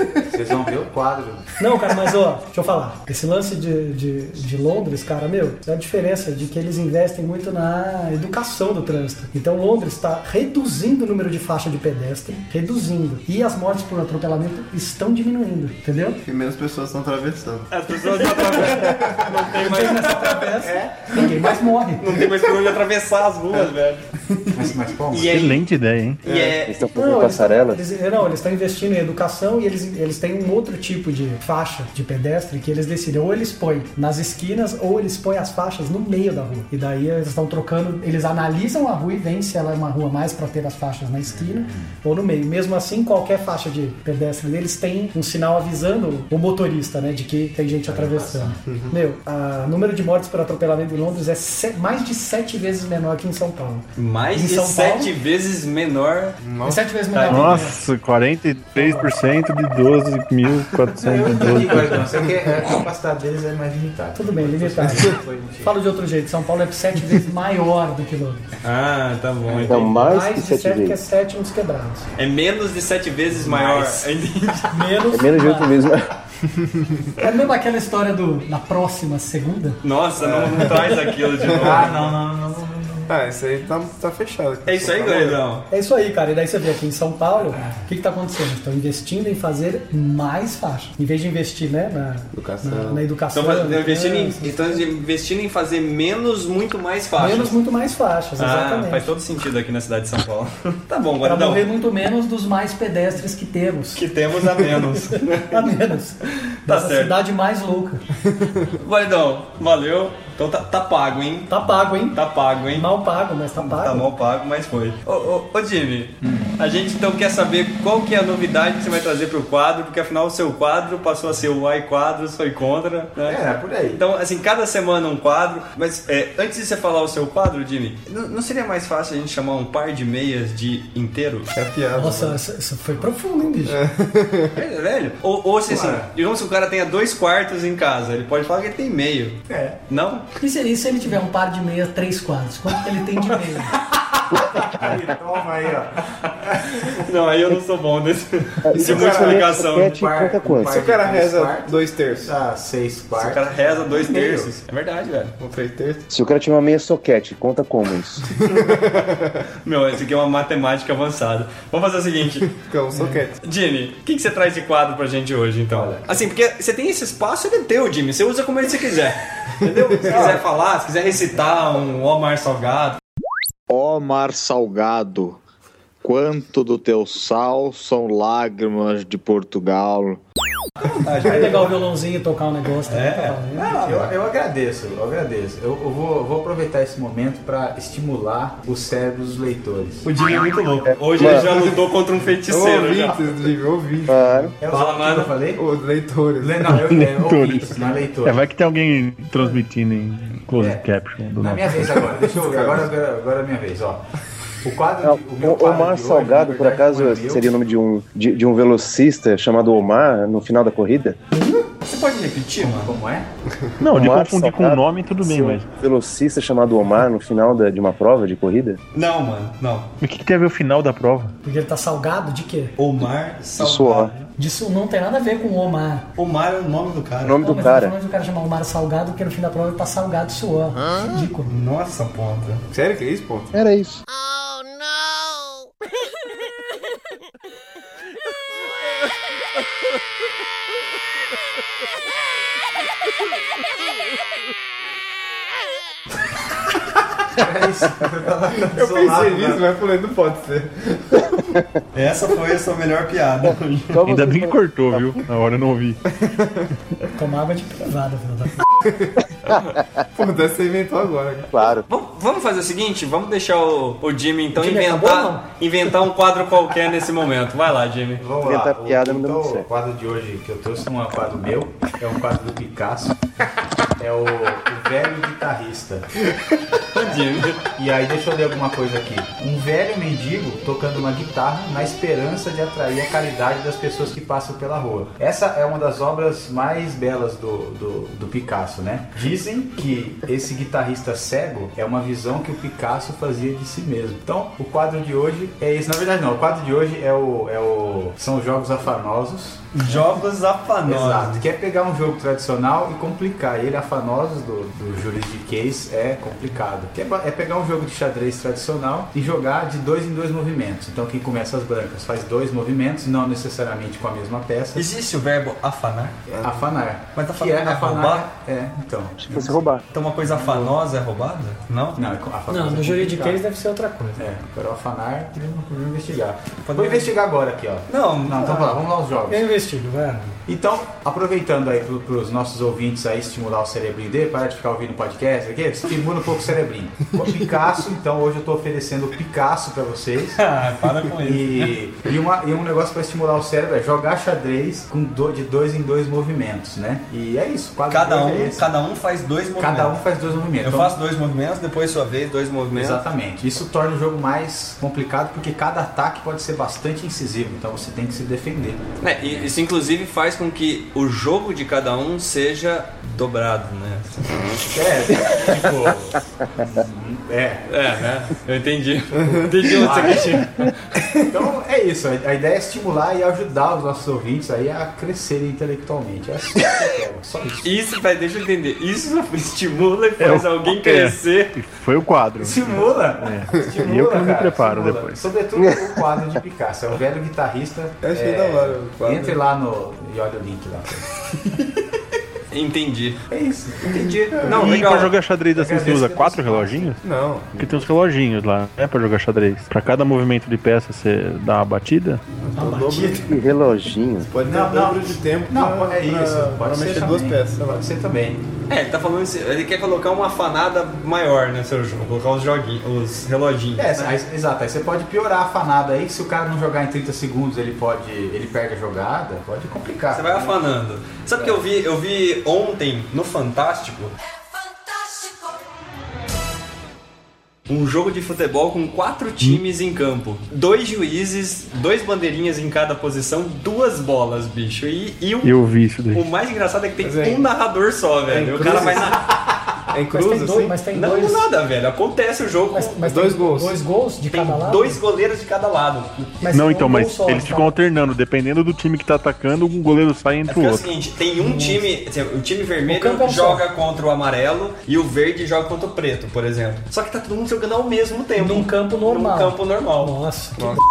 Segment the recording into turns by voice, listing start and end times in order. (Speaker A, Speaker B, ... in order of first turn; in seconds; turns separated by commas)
Speaker A: 0.3-1.5, Speaker B: 1.6-16.2, Speaker C: 16.2-17.7, Speaker D: 17.7-20.6, Speaker C: 18.2-19.4, Speaker B: 19.6-22.2, Speaker D: 22.0-24.0, Speaker A: 24.5-25.5, Speaker D: 25.1-25.6, Speaker E: 25.2-26.2, Speaker D: 26.2-26.7, Speaker C: 26.2-26.6, Speaker F: 26.6-27.8, Speaker B: 26.9-55.1, Speaker A: 41.2-41.9, Speaker A: 47.9-48.6, Speaker C: 48.6-48.9, Speaker D: 54.0-56.4, Speaker C: 56.4-56.8, Speaker B: 56.6-57.8, Speaker D: 57.1-57.6, Speaker E: 57.2-62.1, Speaker B: 58.7-59.1, Speaker A: 61.0-65.8, Speaker B: 64.1-68.4, Speaker D: 68.6-70.0, Speaker F: 69.7-71.0, Speaker B: 69.8-72.1, Speaker D: 72.2-74.8, Speaker A: 73.3-74.0, Speaker B: 74.7-75.8, Speaker F: 75.1-76.1, Speaker B: 77.2-79.8, Speaker D: 79.8-82.2, Speaker C: 80.2-82.0, Speaker A: 81.5-83.1, Speaker C: 83.1-85.4, Speaker D: 84.7-85.7, Speaker B: 85.7-94.8, Speaker C: 92.3-93.0, Speaker D: 93.3-97.5, Speaker B: 97.2-99.1, Speaker D: 98.4-101.7, Speaker B: 101.2-104.0, Speaker D: 104.0-105.7, Speaker B: 104.5-108.0, Speaker D: 106.3-107.2, Speaker D: 108.8-111.5, Speaker B: 111.5-112.2, Speaker D: 112.1-112.9, Speaker B: 112.7-114.1, Speaker D: 113.6-123.4, Speaker A: 116.2-116.5, Speaker A: 123.2-124.0, Speaker D: 123.9-131.5, Speaker C: 131.5-132.4, Speaker B: 131.9-133.8, Speaker C: 133.6-134.6, Speaker D: 134.5-140.3, Speaker A: 135.7-136.1, Speaker A: 139.5-139.8, Speaker B: 140.4-143.7, Speaker A: 143.8-147.0, Speaker D: 146.8-150.0, Speaker F: 148.6-150.7, Speaker C: 148.7-149.5, Speaker A: 149.8-154.5, Speaker C: 150.6-152.3, Speaker D: 153.2-155.3, Speaker C: 155.4-156.1, Speaker F: 156.1-158.2, Speaker C: 158.4-159.4, Speaker D: 159.6-162.5, Speaker C: 162.5-163.3, Speaker A: 162.9-163.2, Speaker D: 163.4-173.0, Speaker A: 165.7-166.1, Speaker A: 170.1-170.4, Speaker G: 173.7-175.4, Speaker G: 176.0-180.2, Speaker D: 180.8-181.8, Speaker B: 181.2-183.8, Speaker D: 182.9-184.1, Speaker A: 183.7-190.1, Speaker D: 190.0-193.2, Speaker F: 190.9-191.5, Speaker C: 192.5-194.6, Speaker F: 194.1-194.5, Speaker A: 194.6-195.6, Speaker D: 194.7-195.4, Speaker C: 195.6-196.7, Speaker A: 196.4-198.5, Speaker E: 196.7-202.1, Speaker A: 200.5-200.8, Speaker A: 201.4-204.0, Speaker C: 202.3-202.9, Speaker A: 204.6-207.5, Speaker F: 205.0-211.2, Speaker D: 211.9-212.9, Speaker A: 212.6-213.3, Speaker E: 213.8-215.6, Speaker F: 213.9-218.8, Speaker D: 218.9-219.9, Speaker E: 220.0-221.3, Speaker B: 221.4-222.7, Speaker D: 222.8-224.3, Speaker F: 223.6-224.1, Speaker B: 224.4-226.1, Speaker D: 226.2-227.7, Speaker F: 227.2-227.9, Speaker B: 227.4-231.5, Speaker D: 231.4-232.6, Speaker C: 232.7-233.5, Speaker F: 233.5-234.0, Speaker A: 247.3-249.7, Speaker C: 248.6-251.6, Speaker D: 251.9-254.0, Speaker F: 253.9-255.2, Speaker E: 254.0-256.0, Speaker C: 256.1-256.7, Speaker B: 257.1-258.6, Speaker C: 258.8-259.1, Speaker F: 259.5-260.0, Speaker C: 260.1-261.5, Speaker F: 261.5-261.9, Speaker D: 261.9-268.2, Speaker B: 264.6-265.4, Speaker A: 268.2-273.2, Speaker F: 268.4-269.7, Speaker A: 274.0-276.1, Speaker D: 276.9-277.6, Speaker A: 277.8-300.1, Speaker D: 299.7-301.4, Speaker A: 300.9-314.9, Speaker D: 314.7-316.2, Speaker C: 316.3-316.6, Speaker A: 316.4-319.7, Speaker D: 317.1-318.3, Speaker F: 319.2-319.8, Speaker D: 319.9-322.0, Speaker A: 320.2-320.7, Speaker A: 321.9-323.4, Speaker B: 322.5-324.2, Speaker A: 324.2-329.4, Speaker D: 326.6-327.1, Speaker D: 327.9-328.8, Speaker B: 329.3-330.4, Speaker A: 330.5-340.4, Speaker D: 340.4-341.7, Speaker A: 341.2-348.7, Speaker D: 347.9-350.0, Speaker A: 349.6-350.9, Speaker D: 350.6-353.0, Speaker A: 352.7-358.8, Speaker D: 359.0-364.6, Speaker A: 364.7-367.6, Speaker D: 367.7-370.7, Speaker C: 369.2-370.0, Speaker A: 369.8-370.5, Speaker A: 371.3-377.7, Speaker D: 377.6-381.6, Speaker E: 380.2-385.2, Speaker A: 382.4-391.0, Speaker C: 388.0-389.4, Speaker D: 392.5-393.2, Speaker A: 393.3-394.0, Speaker D: 393.8-395.1, Speaker C: 394.4-394.8, Speaker E: 394.5-397.0, Speaker A: 395.5-396.9, Speaker C: 397.0-397.9, Speaker E: 397.6-402.2, Speaker C: 402.4-403.2, Speaker B: 402.5-403.3, Speaker F: 403.1-404.3, Speaker C: 404.3-407.6, Speaker A: 404.4-408.4, Speaker D: 408.7-414.1, Speaker A: 413.8-420.6, Speaker D: 420.1-424.1, Speaker A: 421.4-421.6, Speaker D: 427.7-435.5, Speaker E: 435.4-436.2, Speaker D: 436.1-439.2, Speaker C: 437.0-437.5, Speaker C: 438.3-439.1, Speaker A: 438.6-439.2, Speaker C: 439.9-440.8, Speaker B: 440.1-441.4, Speaker D: 440.9-443.0, Speaker B: 442.7-445.0, Speaker C: 443.0-443.8, Speaker D: 444.3-446.4, Speaker B: 446.4-447.8, Speaker E: 446.5-450.9, Speaker D: 450.5-460.1, Speaker B: 451.4-451.9, Speaker B: 452.9-453.6, Speaker B: 458.4-460.8